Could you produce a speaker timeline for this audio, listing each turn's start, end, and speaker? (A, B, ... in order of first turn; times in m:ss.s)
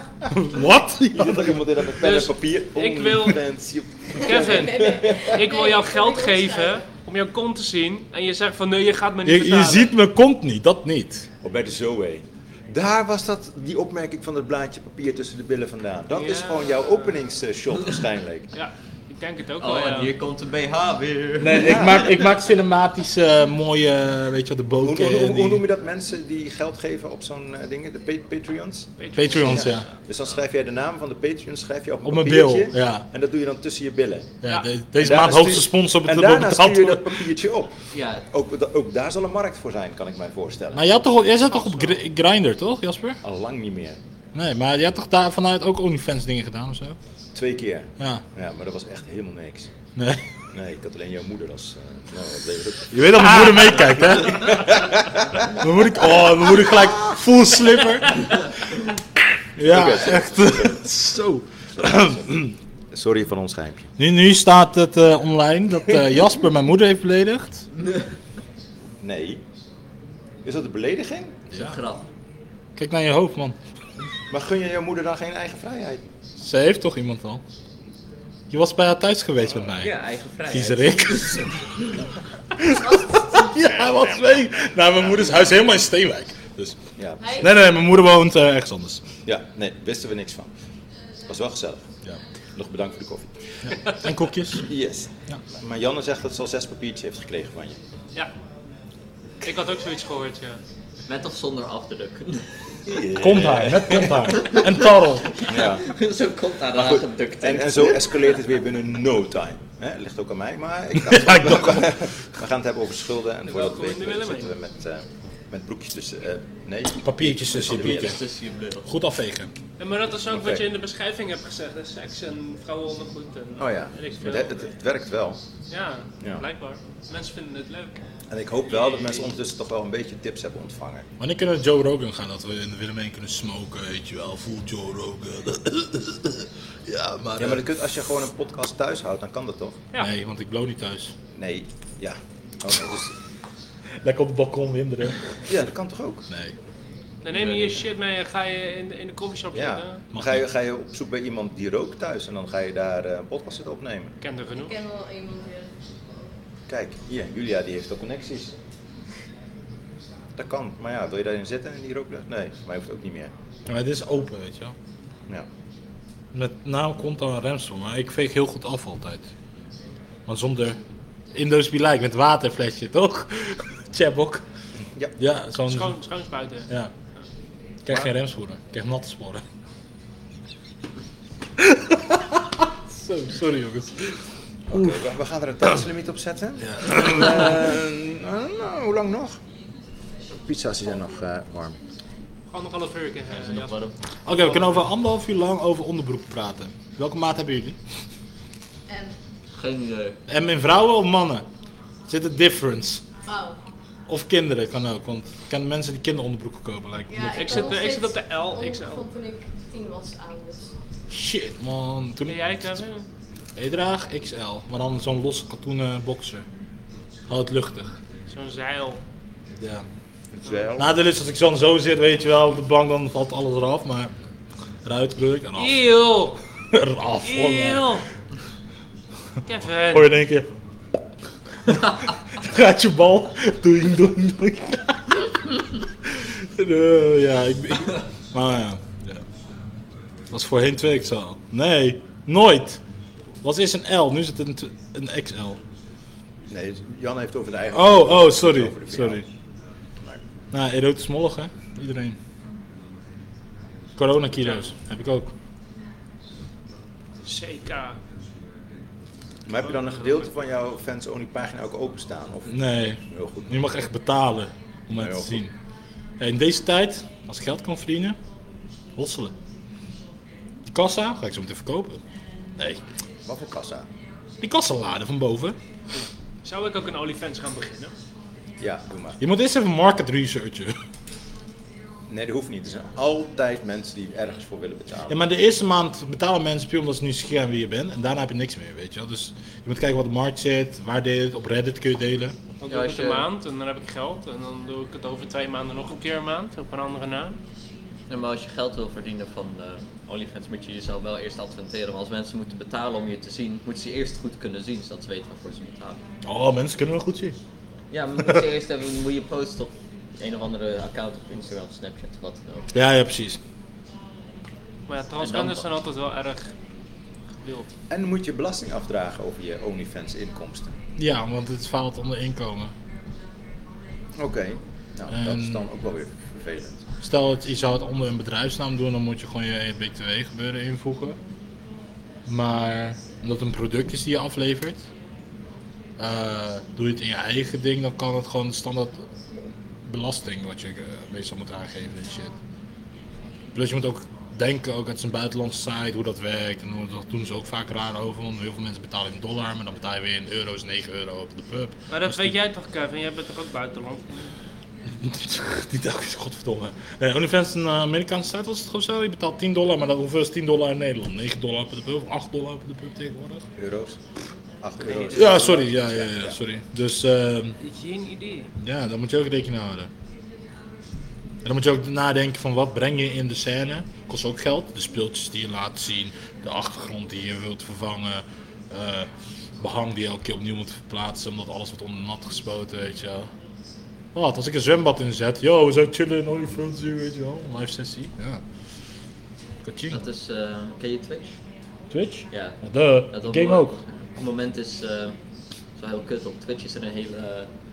0:00.3-0:01.6 A
0:01.1-0:05.4 B
0:02.0-0:03.4 C
0:04.1-0:09.9 C
0:04.4-0:06.8 D
0:09.2-0:11.3 A
0:11.4-0:18.5 B
0:16.1-0:17.2 C
0:18.5-0:20.1 C
0:19.6-0:22.2 E
0:21.4-0:25.6 A
0:21.6-0:22.0 B
0:24.8-0:34.3 B
0:29.0-0:29.9 C
0:29.1-0:29.9 A
0:32.0-0:33.0 A
0:34.4-0:37.2 A
0:35.0-0:37.7 B
0:37.9-0:38.2 E
0:38.3-0:40.8 B
0:40.7-0:43.2 A
0:41.5-0:42.0 C
0:43.2-0:44.0 B
0:44.3-0:47.0 A
0:47.3-0:49.7 B
0:48.0-0:48.2 A
0:50.0-0:50.2 A
0:50.5-0:53.6 B
0:52.9-0:54.8 A
0:54.3-0:55.6 B
0:55.6-0:58.5 A
0:59.6-1:02.5 A
0:59.6-1:00.8 B
1:01.8-1:03.9 B
1:04.0-1:07.6 A
1:09.0-1:09.4 B
1:10.4-1:11.4 B
1:11.5-1:11.8 A
1:11.5-1:12.0 E
1:12.8-1:13.6 A
1:14.3-1:16.0 B
1:16.4-1:17.4 A
1:18.5-1:19.9 A
1:19.8-1:21.5 E
1:20.5-1:21.5 A
1:22.6-1:26.8 A
1:27.0-1:27.2 B
1:27.2-1:27.5 D
1:27.3-1:29.0 A
1:29.2-1:30.5 B
1:31.3-1:31.8 B
1:32.5-1:33.4 B
1:33.6-1:34.7 A
1:34.6-1:37.8 B
1:39.4-1:40.6 C
1:41.1-1:42.5 E
1:42.9-1:44.3 B
1:43.2-1:45.4 A
1:44.3-1:44.7 E
1:45.4-1:48.2 E
1:45.5-1:45.8 B
1:46.7-1:58.2 B
1:51.0-1:52.0 A
1:53.5-1:54.5 C
1:57.0-1:58.2 A
1:57.6-1:58.9 E
1:58.8-1:59.5 A
1:59.8-2:04.7 C
2:00.3-2:00.6 B
2:03.6-2:05.4 B
2:05.7-2:08.0 C
2:08.3-2:11.0 B
2:08.7-2:09.3 C
2:11.2-2:17.7 A
2:17.4-2:19.8 B
2:20.0-2:21.1 A
2:21.3-2:23.1 B
2:24.0-2:25.2 A
2:25.5-2:26.3 B
2:26.3-2:26.6 A
2:27.2-2:30.0 C
2:27.3-2:27.8 E
2:29.5-2:34.2 B
2:30.1-2:30.4 A
2:34.2-2:34.7 C
2:34.5-2:35.7 D
2:36.7-2:38.5 B
2:40.4-2:43.3 B
2:43.7-2:44.7 A
2:46.3-2:49.2 A
2:50.3-2:50.8 A
2:51.3-2:54.4 A
2:55.2-2:56.0 A
2:55.7-2:56.7 C
2:57.8-2:59.4 A
3:01.6-3:04.2 A
3:04.7-3:09.4 B
3:04.7-3:05.0 A
3:06.6-3:07.6 A
3:10.3-3:11.8 B
3:12.5-3:13.7 C
3:13.3-3:13.9 E
3:14.2-3:17.8 A
3:18.9-3:19.1 D
3:19.5-3:20.2 E
3:20.3-3:21.4 A
3:22.1-3:23.0 A
3:23.3-3:23.6 D
3:24.1-3:27.8 A
3:27.1-3:30.7 D
3:27.3-3:29.0 C
3:31.1-3:32.8 A
3:32.3-3:33.1 C
3:33.6-3:36.4 A
3:37.3-3:37.9 A
3:38.3-3:39.0 C
3:39.6-3:39.8 A
3:40.3-3:40.9 B
3:40.8-3:44.1 A
3:44.8-3:45.8 A
3:45.6-3:46.4 C
3:46.7-3:48.0 A
3:47.2-3:48.1 C
3:49.5-3:50.1 C
3:49.9-3:50.5 A
3:51.6-3:59.2 A
4:00.3-4:02.8 A
4:03.4-4:05.6 A
4:06.5-4:09.2 B
4:07.7-4:09.2 A
4:10.5-4:12.2 A
4:14.0-4:15.3 A
4:14.4-4:14.7 C
4:17.2-4:18.0 C
4:19.5-4:23.6 B
4:19.6-4:20.3 C
4:22.5-4:25.5 A
4:24.9-4:25.4 B
4:26.2-4:28.2 A
4:29.0-4:29.3 A
4:30.7-4:32.0 A
4:33.2-4:33.9 B
4:34.4-4:35.6 A
4:36.4-4:37.9 C
4:38.6-4:39.2 B
4:39.2-4:40.8 A
4:42.1-4:45.2 B
4:45.1-4:52.4 A
4:52.6-4:57.4 C
4:52.6-4:53.3 E
4:58.1-5:06.0 E
5:06.2-5:07.4 A
5:07.9-5:12.7 E
5:12.7-5:13.4 A
5:14.9-5:16.5 C
5:15.2-5:15.6 E
5:17.4-5:17.7 C
5:17.9-5:20.7 B
5:21.0-5:22.7 A
5:24.2-5:26.8 B
5:25.1-5:25.6 A
5:27.0-5:31.2 A
5:32.3-5:34.8 A
5:36.0-5:39.1 A
5:39.8-5:42.3 A
5:43.5-5:52.4 A
5:51.9-5:54.3 C
5:54.9-6:03.4 A
6:03.6-6:04.0 B
6:04.6-6:06.4 B
6:04.8-6:05.1 C
6:05.1-6:07.6 A
6:07.6-6:08.5 C
6:08.6-6:09.9 A
6:11.4-6:23.3 A
6:24.1-6:28.4 A
6:29.6-6:30.0 A
6:29.9-6:31.4 E
6:31.9-6:33.8 A
6:32.3-6:32.6 E
6:33.1-6:35.2 E
6:35.8-6:37.5 E